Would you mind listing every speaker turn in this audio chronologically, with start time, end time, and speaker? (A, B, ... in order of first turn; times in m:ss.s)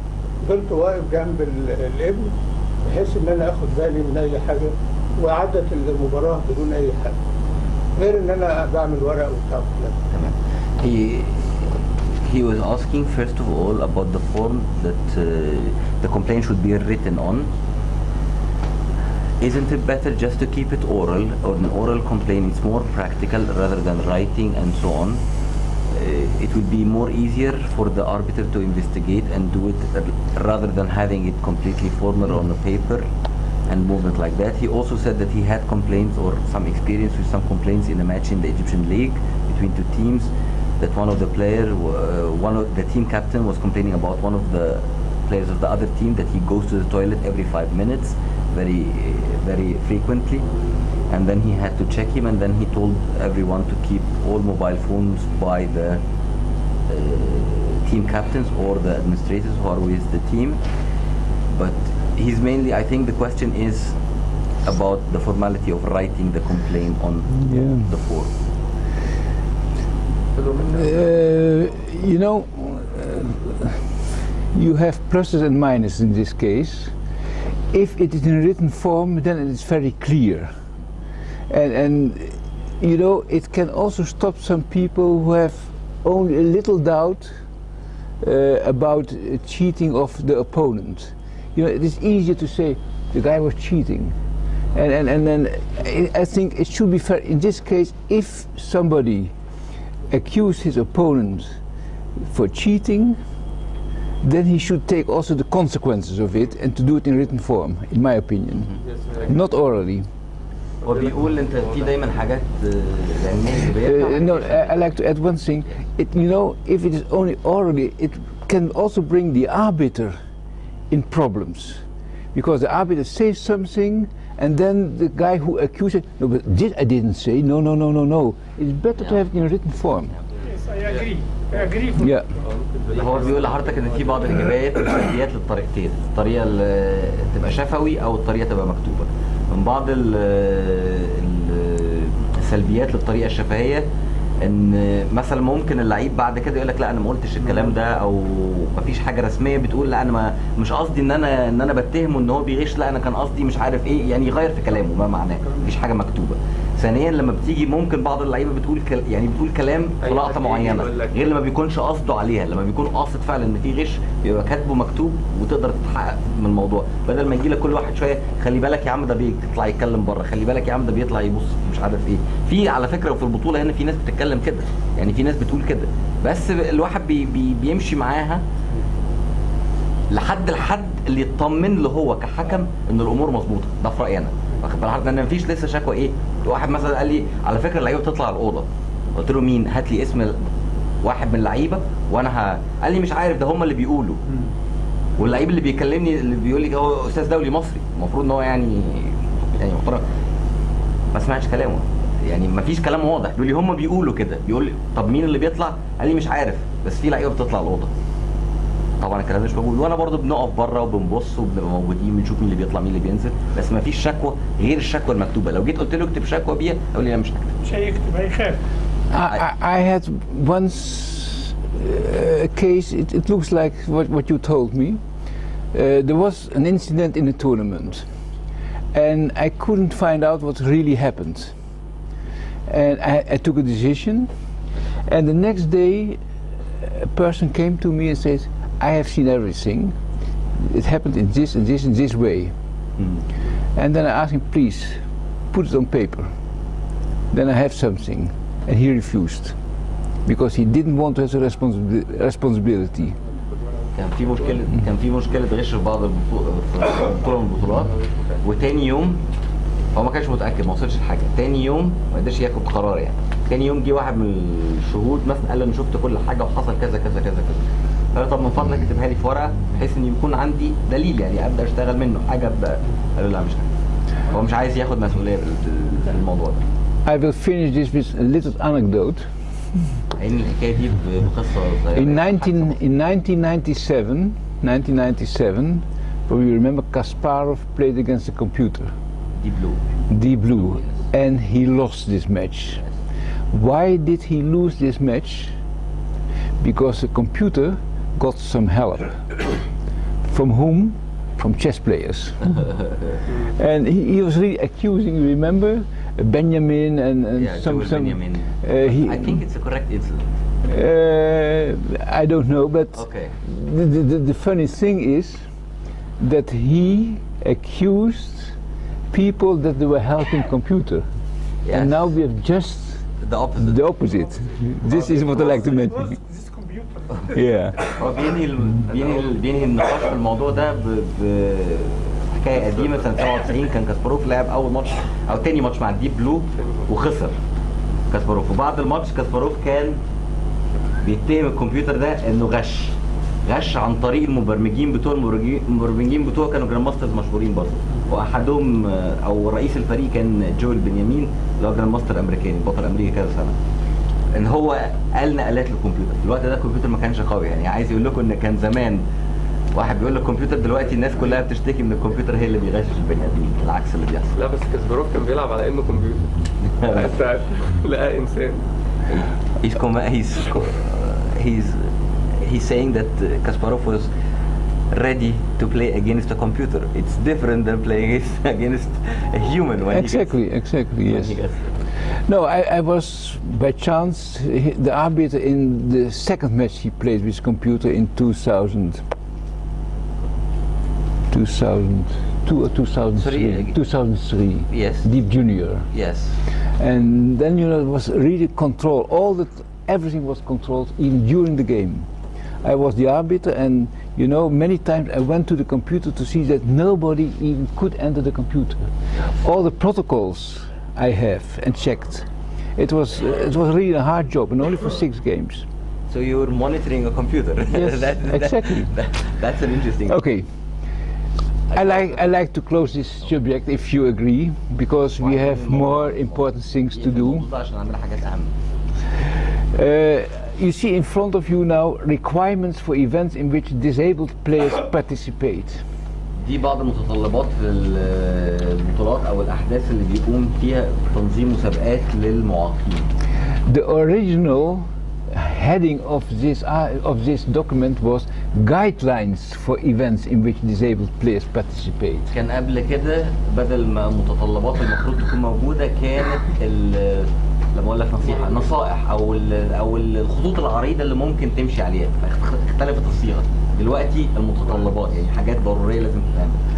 0:00.4-0:02.3 A
0:02.8-0:07.2 A
0:08.0-0:10.0 A
0:10.1-0:17.5 B
0:19.4-0:25.2 B
0:25.9-0:33.0 B
0:33.7-0:50.4 B
0:51.1-0:56.0 B
0:56.9-1:00.6 B
1:01.5-1:04.0 B
1:04.6-1:08.3 B
1:07.4-1:07.9 C
1:10.4-1:10.8 D
1:10.7-1:14.0 C
1:14.5-1:16.9 C
1:17.7-1:20.5 C
1:21.5-1:27.3 C
1:28.2-1:34.2 C
1:34.7-1:39.3 C
1:40.1-1:41.6 C
1:42.3-1:43.2 C
1:44.2-1:48.7 C
1:48.8-1:49.3 D
1:49.3-1:50.1 C
1:50.8-1:54.9 B
1:50.8-1:51.9 D
1:53.8-2:00.2 C
2:00.9-2:01.8 C
2:02.3-2:10.1 C
2:10.4-2:12.4 E
2:10.8-2:11.7 D
2:12.0-2:12.3 C
2:12.4-2:14.5 D
2:13.0-2:23.9 B
2:24.4-2:58.4 B
2:40.0-2:41.2 D
3:00.1-3:10.4 B
3:11.0-3:14.2 B
3:15.2-3:20.0 B
3:21.1-3:27.9 B
3:29.0-3:37.6 B
3:37.6-3:38.6 E
3:39.1-3:45.0 C
3:45.7-3:48.1 C
3:48.9-3:51.6 C
3:52.7-3:54.3 C
3:55.1-3:56.2 C
3:56.8-4:00.0 C
4:00.6-4:02.5 C
4:03.8-4:05.0 C
4:05.5-4:06.3 C
4:07.3-4:09.6 C
4:10.3-4:13.2 C
4:14.0-4:19.2 B
4:17.9-4:18.4 D
4:20.0-4:27.6 B
4:28.1-4:33.7 B
4:34.3-4:36.6 B
4:37.1-4:39.3 C
4:40.1-4:42.8 B
4:42.0-4:48.9 C
4:49.4-4:49.8 B
4:50.1-4:52.8 C
4:50.7-4:51.0 B
4:53.5-4:55.6 C
4:56.6-4:59.4 C
5:00.3-5:02.7 C
5:02.6-5:03.2 B
5:03.6-5:09.4 C
5:07.4-5:10.2 B
5:10.6-5:15.4 C
5:12.9-5:13.4 B
5:16.2-5:18.6 C
5:19.1-5:21.0 C
5:21.6-5:22.0 B
5:21.7-5:23.0 C
5:23.2-5:23.8 B
5:23.6-5:26.2 C
5:25.0-5:25.6 B
5:25.1-5:27.4 E
5:27.3-5:27.9 C
5:27.9-5:37.4 B
5:36.6-5:36.9 D
5:38.1-5:40.0 B
5:41.0-5:53.6 B
5:54.3-5:59.0 B
5:59.7-6:04.4 B
6:04.4-6:06.3 D
6:06.6-6:07.1 B
6:06.8-6:08.6 D
6:09.1-6:14.1 B
6:14.9-6:20.4 B
6:19.9-6:21.4 C
6:21.1-6:21.6 B
6:22.3-6:29.0 C
6:31.3-6:35.9 C
6:33.2-6:33.8 B
6:34.7-6:35.1 B
6:35.9-6:36.4 B
6:36.8-6:42.1 C
6:42.6-6:52.3 C
6:52.8-6:55.7 C
6:56.1-7:00.2 B
6:57.7-6:58.9 C
7:00.1-7:00.5 C
7:01.7-7:02.2 B
7:01.7-7:07.5 C
7:05.2-7:08.5 B
7:09.7-7:15.8 C
7:16.4-7:23.1 B
7:23.7-7:32.3 C
7:32.3-7:46.6 B